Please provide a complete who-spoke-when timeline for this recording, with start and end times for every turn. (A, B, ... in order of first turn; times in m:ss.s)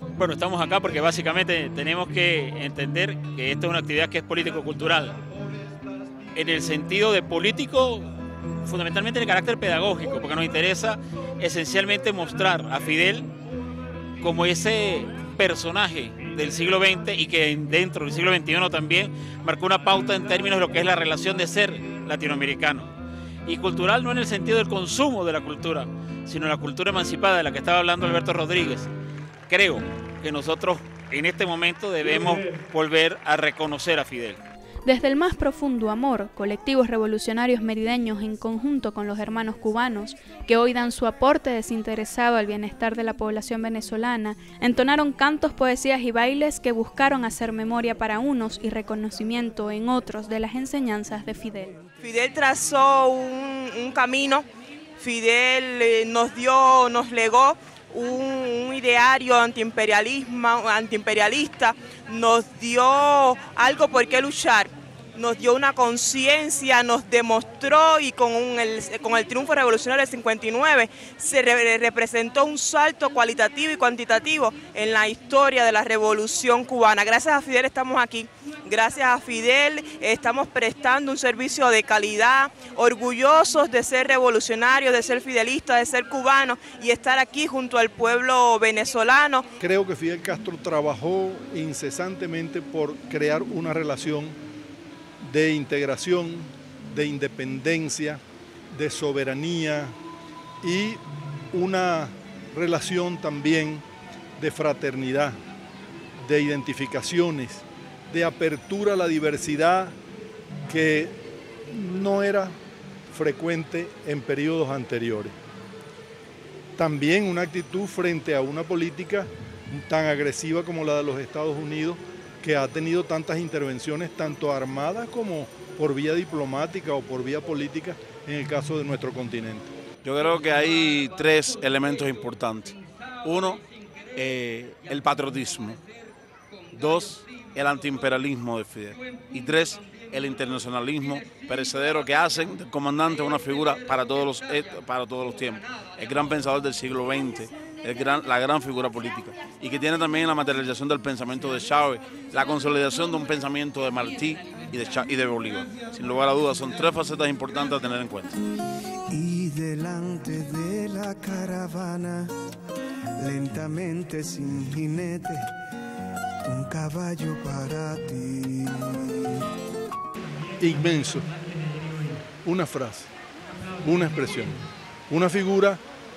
0:00.2-0:05.2 A
0:06.4-0:08.1 A
0:08.6-0:13.3 A
0:14.2-0:22.9 A
0:23.5-0:28.9 A
0:29.5-0:34.4 A
0:34.8-0:51.8 B
0:52.0-0:54.4 C
0:55.0-1:29.5 C
1:29.6-1:34.4 D
1:35.2-1:40.0 D
1:40.6-1:41.0 D
1:41.5-1:43.8 D
1:44.4-1:45.4 D
1:46.2-1:50.0 D
1:50.7-1:51.1 D
1:51.7-1:52.6 D
1:53.1-1:55.4 D
1:56.8-2:09.7 D
2:10.0-2:13.6 E
2:14.2-2:15.8 E
2:16.7-2:38.4 E
2:39.1-2:42.3 F
2:43.2-2:45.4 F
2:46.4-2:49.4 F
2:50.6-2:51.3 D
2:52.4-2:53.1 D
2:53.8-2:55.8 D